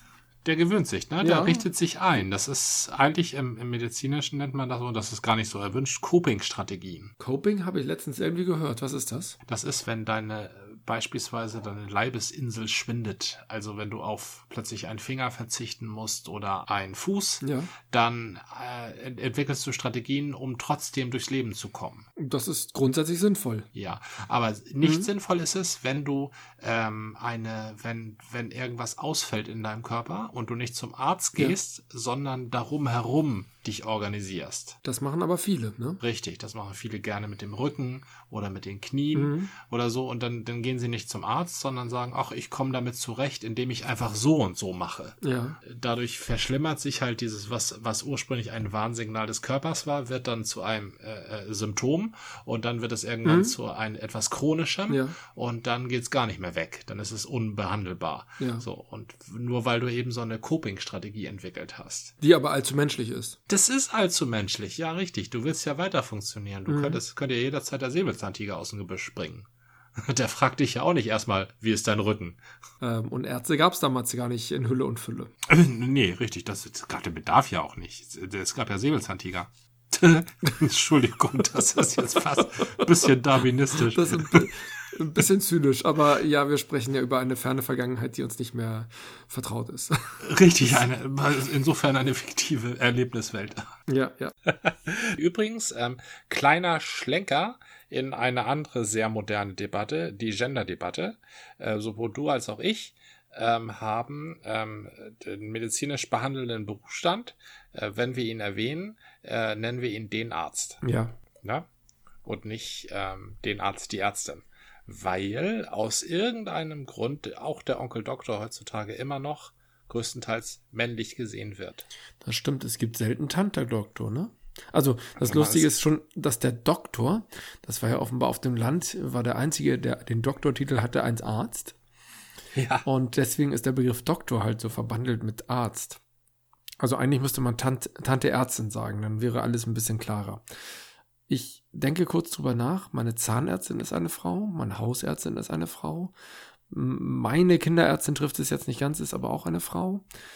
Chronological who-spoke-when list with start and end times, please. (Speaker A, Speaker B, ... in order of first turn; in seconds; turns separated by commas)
Speaker A: 0.4-7.1, Speaker B: 1.2-1.6, Speaker B: 7.2-9.4, Speaker A: 9.4-22.1, Speaker B: 17.4-17.7, Speaker B: 22.2-23.7, Speaker A: 23.7-34.8, Speaker B: 24.8-25.1, Speaker B: 34.8-36.0, Speaker A: 36.0-62.1, Speaker B: 39.1-39.5, Speaker B: 45.2-45.6, Speaker B: 53.2-53.5, Speaker B: 54.9-55.2, Speaker B: 58.4-58.6, Speaker B: 62.2-63.4, Speaker A: 63.5-72.4, Speaker B: 66.7-67.0, Speaker B: 72.8-75.3, Speaker A: 75.5-84.5, Speaker B: 82.4-83.0, Speaker B: 83.7-90.2, Speaker A: 90.2-93.6, Speaker B: 93.9-94.3, Speaker A: 94.5-110.8, Speaker B: 110.8-111.2, Speaker A: 112.2-121.8, Speaker B: 122.2-131.8, Speaker A: 125.2-125.7, Speaker A: 132.5-132.8, Speaker B: 132.8-136.0, Speaker B: 136.8-140.4, Speaker B: 141.3-146.1, Speaker B: 146.7-150.0